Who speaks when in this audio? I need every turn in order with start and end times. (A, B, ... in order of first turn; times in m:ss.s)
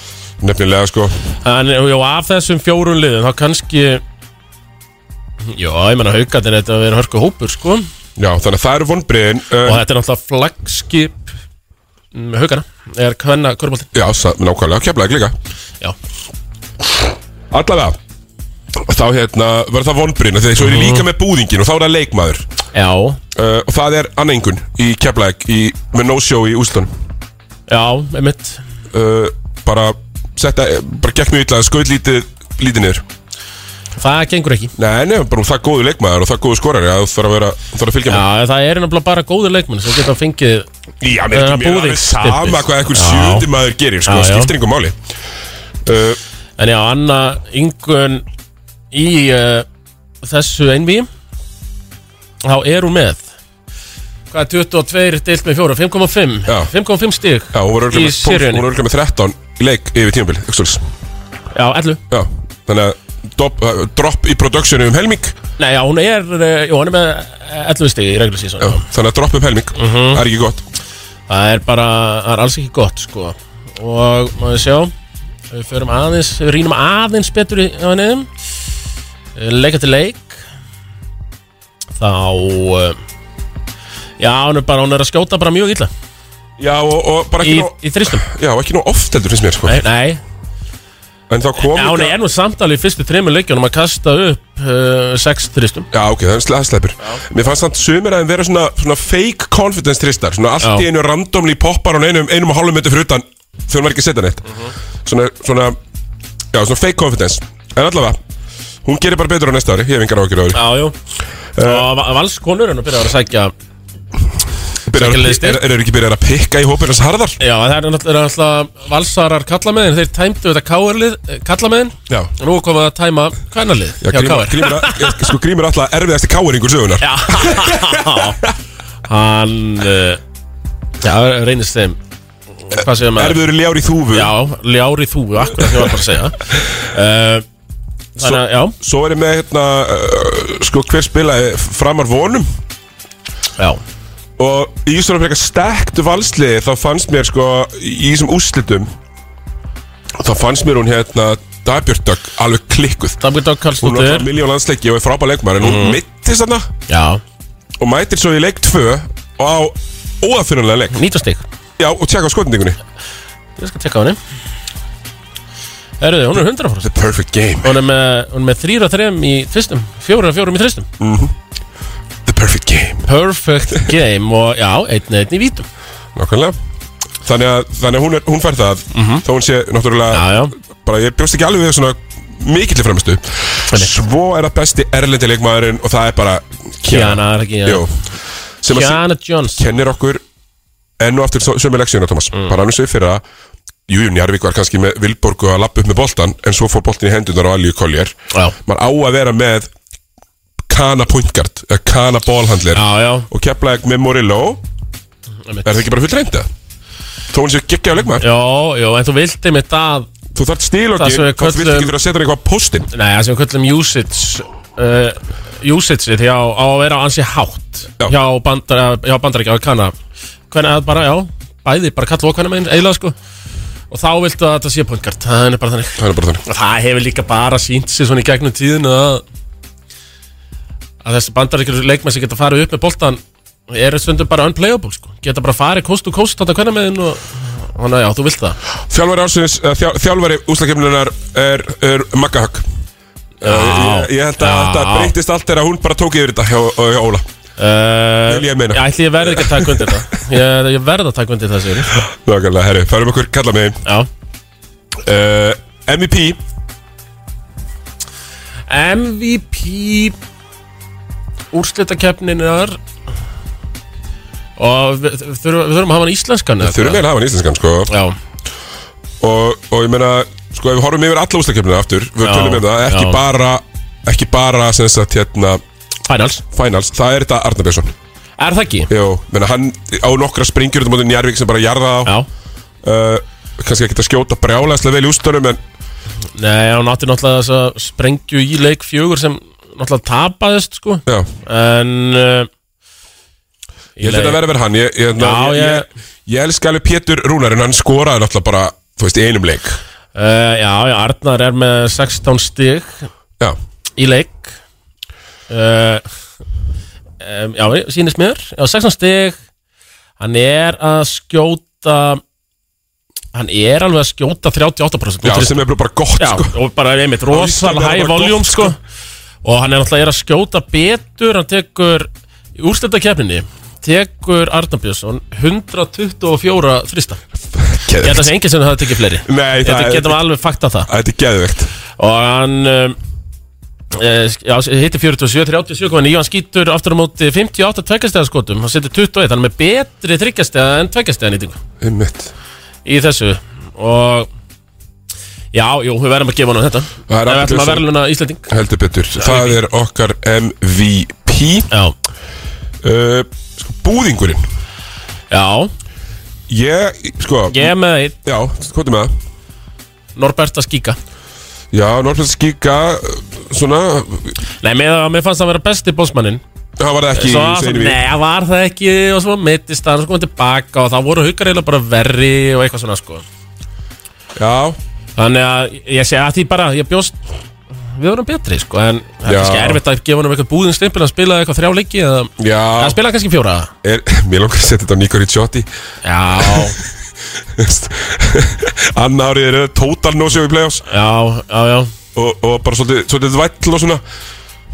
0:00.4-0:01.2 A
0:01.4-0:04.0 B
0:05.4-0:07.8 B
0:08.2-0:09.8 A
0:09.6-0:11.2 B
0:12.1-0:13.9 B
0:13.9-0:15.3 A
0:17.5-0:18.0 A
0:18.8-0:22.5 A
0:20.6-0:21.1 B
0:22.7-0:23.2 B
0:23.3-0:26.9 A
0:27.7-0:28.6 B
0:28.9-0:33.0 A
0:34.0-0:34.7 B
0:34.8-0:38.2 A
0:38.1-0:40.7 B
0:41.0-0:45.0 A
0:41.3-0:43.5 B
0:44.0-0:44.5 B
0:45.8-0:46.2 A
0:46.6-0:48.2 B
0:48.9-0:49.6 B
0:50.2-0:51.1 B
0:52.4-0:53.2 B
0:54.3-0:58.6 B
0:57.5-1:00.8 A
1:01.5-1:02.0 B
1:02.1-1:05.3 A
1:05.6-1:08.8 B
1:08.6-1:10.6 A
1:09.8-1:10.2 B
1:11.3-1:14.9 B
1:15.5-1:18.3 B
1:19.4-1:20.4 B
1:22.0-1:23.0 B
1:24.2-1:25.9 B
1:26.6-1:29.8 A
1:27.4-1:28.2 B
1:29.6-1:30.2 B
1:31.3-1:32.2 A
1:31.7-1:35.9 B
1:35.9-1:44.4 A
1:45.0-1:45.8 A
1:46.5-1:48.2 A
1:48.8-1:50.6 A
1:50.5-1:50.9 B
1:51.6-1:51.9 A
1:51.6-1:53.5 B
1:54.9-1:57.4 A
1:54.9-1:55.6 B
1:57.4-2:05.3 B
2:04.0-2:08.2 A
2:07.0-2:08.4 B
2:09.1-2:10.2 B
2:11.0-2:12.0 B
2:12.6-2:13.4 B
2:13.1-2:14.3 A
2:14.1-2:16.4 B
2:16.9-2:17.4 B
2:18.2-2:22.5 A
2:18.2-2:18.7 B
2:24.4-2:28.9 A
2:30.2-2:33.2 A
2:33.2-2:34.3 B
2:33.8-2:36.7 A
2:35.6-2:36.0 B
2:36.9-2:37.2 B
2:37.8-2:41.0 A
2:40.9-2:41.4 B
2:41.8-2:42.8 A
2:43.6-2:44.2 B
2:46.0-2:46.9 B
2:46.8-2:47.7 A
2:47.6-2:50.9 B
2:51.0-2:51.3 A
2:52.2-2:53.0 A
2:53.0-2:55.6 B
2:56.2-2:56.6 A
2:57.2-3:07.9 A
2:58.9-2:59.2 B
3:00.1-3:00.5 B
3:06.9-3:07.8 B
3:08.6-3:09.0 A
3:08.7-3:09.6 B
3:09.5-3:10.2 A
3:11.0-3:13.2 A
3:13.9-3:19.7 A
3:20.7-3:24.6 A
3:22.7-3:23.3 B
3:25.5-3:25.8 B
3:25.6-3:26.5 A
3:27.3-3:28.2 A
3:28.2-3:30.1 B
3:30.3-3:32.9 A
3:31.0-3:31.9 B
3:32.9-3:39.9 B
3:40.5-3:43.1 B
3:43.9-3:49.2 B
3:46.0-3:46.4 A
3:51.0-3:58.6 B
3:58.9-4:02.6 A
4:03.4-4:07.2 A
4:03.4-4:05.1 B
4:07.6-4:11.9 B
4:08.3-4:10.0 A
4:11.9-4:13.8 A
4:15.0-4:16.4 A
4:18.7-4:20.2 B
4:21.5-4:22.8 B
4:24.6-4:27.0 B
4:26.6-4:27.9 A
4:27.9-4:28.2 B
4:29.2-4:35.6 A
4:32.2-4:33.2 B
4:36.1-4:36.4 B
4:36.4-4:37.9 A
4:38.4-4:38.9 B
4:38.9-4:42.1 A
4:42.8-4:45.6 A
4:46.4-4:52.5 B
4:54.0-4:54.4 B
4:54.0-4:59.8 A
4:55.2-4:55.8 B
5:00.1-5:03.1 B
5:04.0-5:04.5 B
5:05.5-5:06.0 B
5:07.2-5:09.4 B
5:10.2-5:12.2 B
5:13.3-5:15.6 B
5:15.2-5:16.5 A
5:16.2-5:18.8 B
5:17.3-5:18.8 A
5:19.4-5:27.2 B
5:27.5-5:28.3 A
5:28.0-5:30.9 B
5:29.2-5:30.2 A
5:30.9-5:31.7 A
5:32.0-5:33.0 B
5:33.9-5:41.6 B
5:41.8-5:42.3 A
5:42.8-5:44.3 B
5:45.5-5:48.5 B
5:47.1-5:47.8 A
5:48.5-5:51.7 A
5:49.2-5:49.6 B
5:52.8-5:54.4 A
5:55.3-5:55.7 B
5:56.5-5:57.7 A
5:57.5-5:58.2 B
5:58.2-5:59.1 A
6:00.2-6:01.0 B
6:01.7-6:04.3 A
6:04.6-6:06.4 B
6:06.8-6:08.0 A
6:07.1-6:13.2 B
6:14.4-6:14.8 A
6:15.2-6:17.2 B
6:18.0-6:23.7 B
6:19.2-6:19.8 A
6:22.4-6:23.0 A
6:23.8-6:25.7 A
6:26.0-6:26.8 B
6:26.4-6:26.7 A
6:27.6-6:30.8 A
6:30.9-6:31.9 B
6:32.1-6:34.0 A